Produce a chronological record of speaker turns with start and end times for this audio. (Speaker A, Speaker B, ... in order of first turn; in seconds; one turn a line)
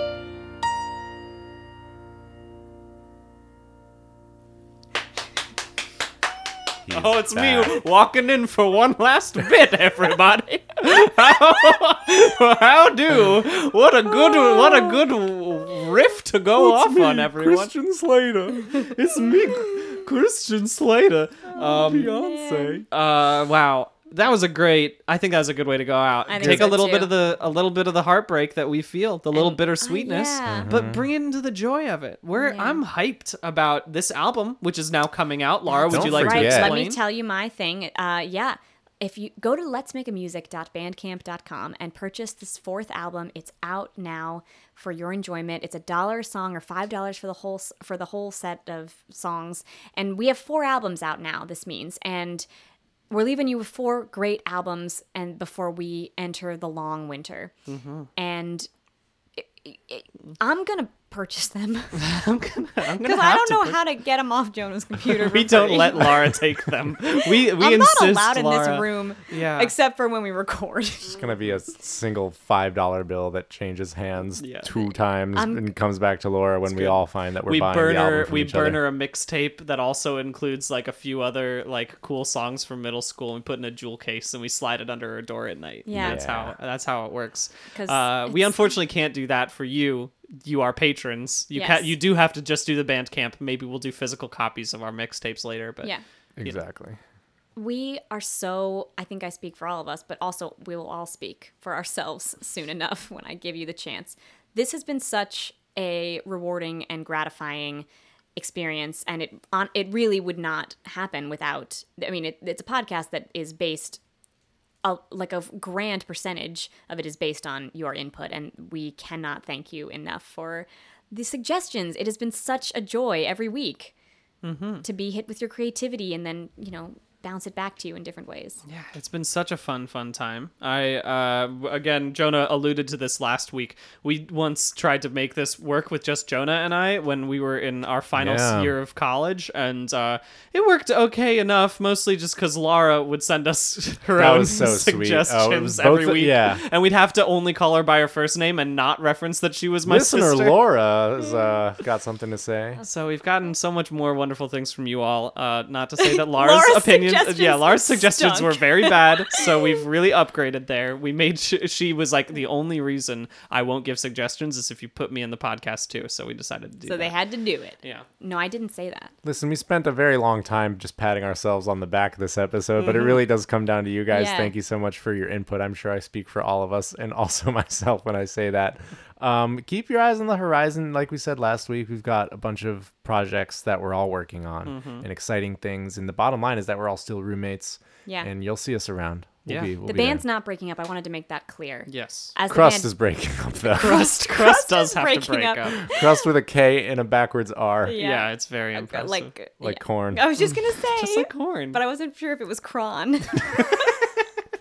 Speaker A: 6.8-7.8
Speaker B: 6.9-17.7
Speaker A: 16.5-19.6
Speaker B: 18.9-22.2
Speaker A: 21.5-22.9
Speaker C: 21.6-22.8
Speaker B: 22.9-37.0
Speaker C: 26.3-27.1
Speaker A: 26.4-26.7
Speaker C: 29.3-30.7
Speaker A: 30.4-31.1
Speaker C: 32.3-32.8
Speaker C: 35.7-52.5
Speaker A: 35.9-36.8
Speaker C: 53.1-57.5
Speaker B: 57.7-58.1
Speaker C: 58.1-58.7
Speaker C: 59.4-62.1
Speaker B: 61.9-63.8
Speaker C: 63.0-66.4
Speaker B: 65.0-69.7
Speaker C: 67.3-71.2
Speaker A: 71.1-78.8
Speaker B: 74.4-74.7
Speaker C: 75.3-75.7
Speaker B: 76.6-95.9
Speaker C: 85.8-86.2
Speaker A: 85.9-86.5
Speaker C: 87.7-88.8
Speaker C: 91.5-92.0
Speaker A: 96.4-97.0
Speaker C: 97.5-114.0
Speaker C: 114.8-123.9
Speaker B: 124.4-124.8
Speaker C: 124.8-128.6
Speaker B: 128.7-150.7
Speaker A: 138.1-138.8
Speaker A: 144.2-146.6
Speaker A: 149.8-152.8
Speaker B: 152.8-167.2
Speaker C: 156.0-159.8
Speaker C: 166.8-169.1
Speaker B: 167.8-168.1
Speaker A: 169.2-190.2
Speaker C: 174.1-174.5
Speaker B: 184.7-185.1
Speaker B: 189.4-189.7
Speaker C: 189.8-192.9
Speaker B: 191.9-192.3
Speaker A: 192.4-194.1
Speaker B: 193.8-195.8
Speaker C: 193.9-196.2
Speaker A: 195.8-198.0
Speaker C: 197.8-203.9
Speaker B: 197.9-199.3
Speaker A: 199.6-200.4
Speaker B: 200.8-201.8
Speaker B: 203.6-203.9